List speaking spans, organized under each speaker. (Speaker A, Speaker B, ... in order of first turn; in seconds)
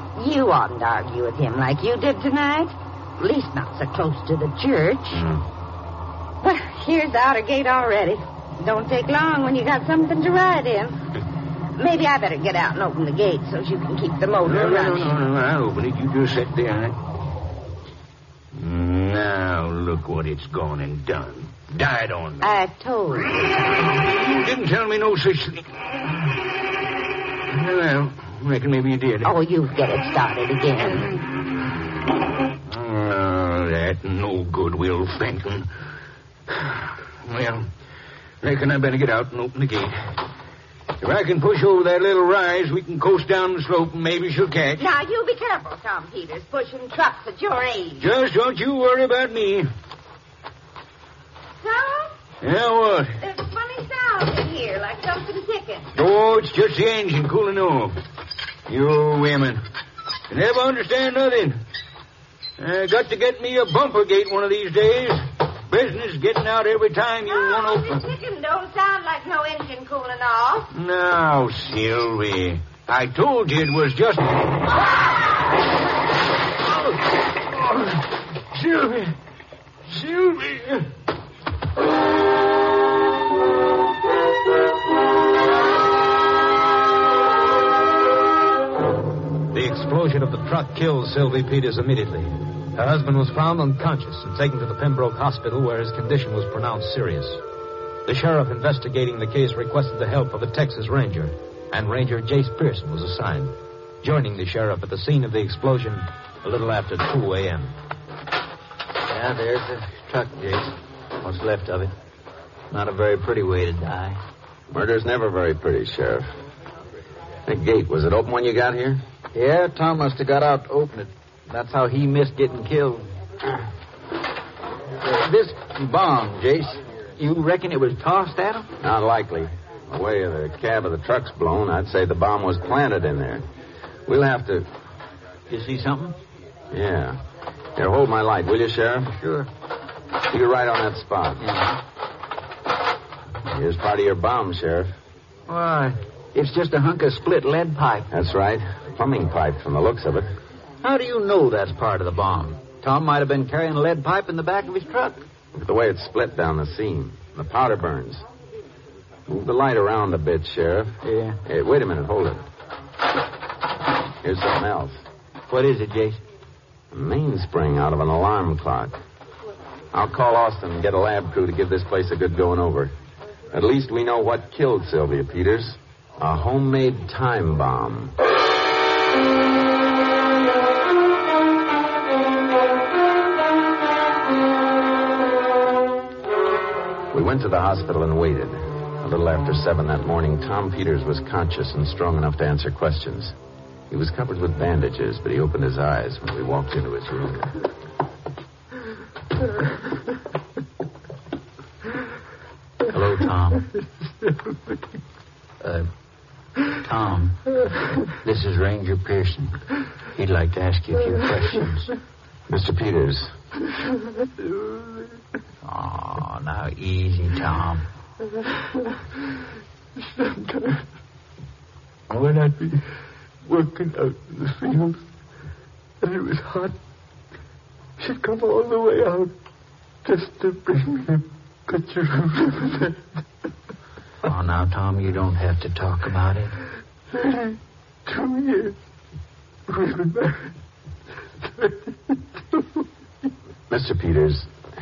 Speaker A: 0.2-5.2, 6.4-11.0, 11.8-15.2, 22.4-23.9, 29.2-31.2, 44.8-48.1, 51.6-52.1, 53.2-55.9, 67.3-70.7
Speaker B: 5.1-5.4, 14.4-17.0, 18.5-22.4, 23.9-25.6, 27.5-29.3, 32.7-35.7, 36.5-37.7, 38.4-39.9, 41.0-44.8, 48.0-49.7, 52.4-53.2, 55.9-57.9, 58.7-59.6, 60.3-61.6, 62.6-68.0, 70.7-74.3, 78.5-79.1, 79.9-80.9
Speaker C: 89.5-97.4, 98.1-107.7
Speaker D: 109.1-111.9, 112.7-114.2, 119.3-123.1, 125.0-128.7, 135.5-136.2, 139.1-139.5, 141.4-141.8, 145.5-148.1, 150.8-155.2, 161.0-161.4, 165.5-166.2, 202.9-203.7, 205.6-205.9, 206.8-209.6, 210.2-211.9, 215.7-217.8, 234.2-236.6
Speaker E: 114.7-116.3, 117.5-119.0, 128.8-133.4, 134.1-134.7, 136.7-137.2, 137.8-139.2, 140.3-141.4, 143.5-144.9, 148.1-150.3, 155.6-158.2, 159.3-162.4, 164.2-164.9, 166.9-169.0, 169.9-172.9, 173.5-178.1, 187.1-193.3, 193.9-197.5, 212.5-213.3, 243.7-244.5
Speaker F: 214.6-214.9, 220.0-220.9, 222.1-222.9, 223.4-225.0, 226.0-226.8, 228.0-229.3, 230.1-232.9, 237.1-238.8, 239.7-240.5, 241.6-242.6